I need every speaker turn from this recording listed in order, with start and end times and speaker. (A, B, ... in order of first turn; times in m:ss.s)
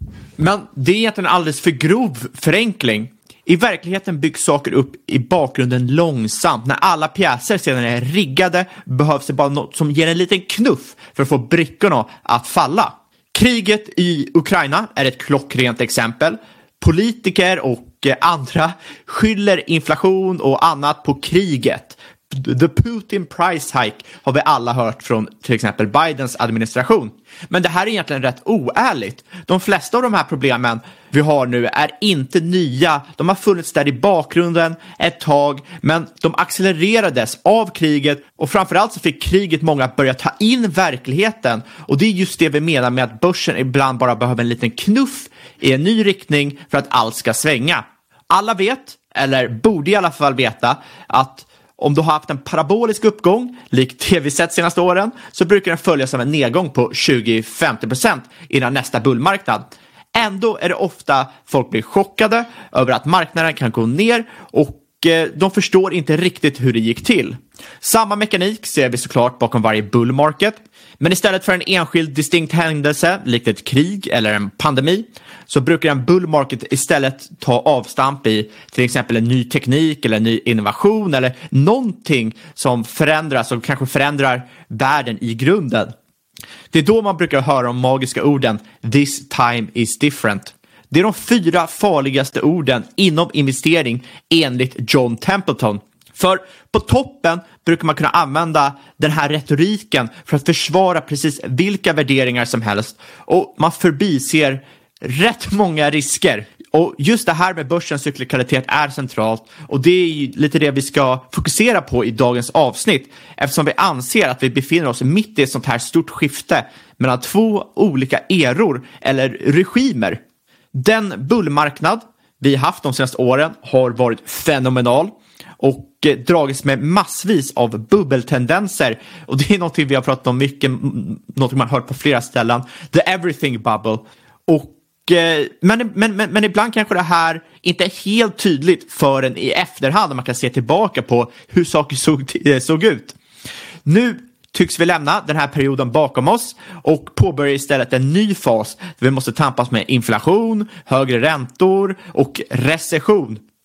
0:00.4-1:25.9 A
1:26.7-2:00.2 A
2:00.7-2:23.2 A
2:23.8-2:33.4 A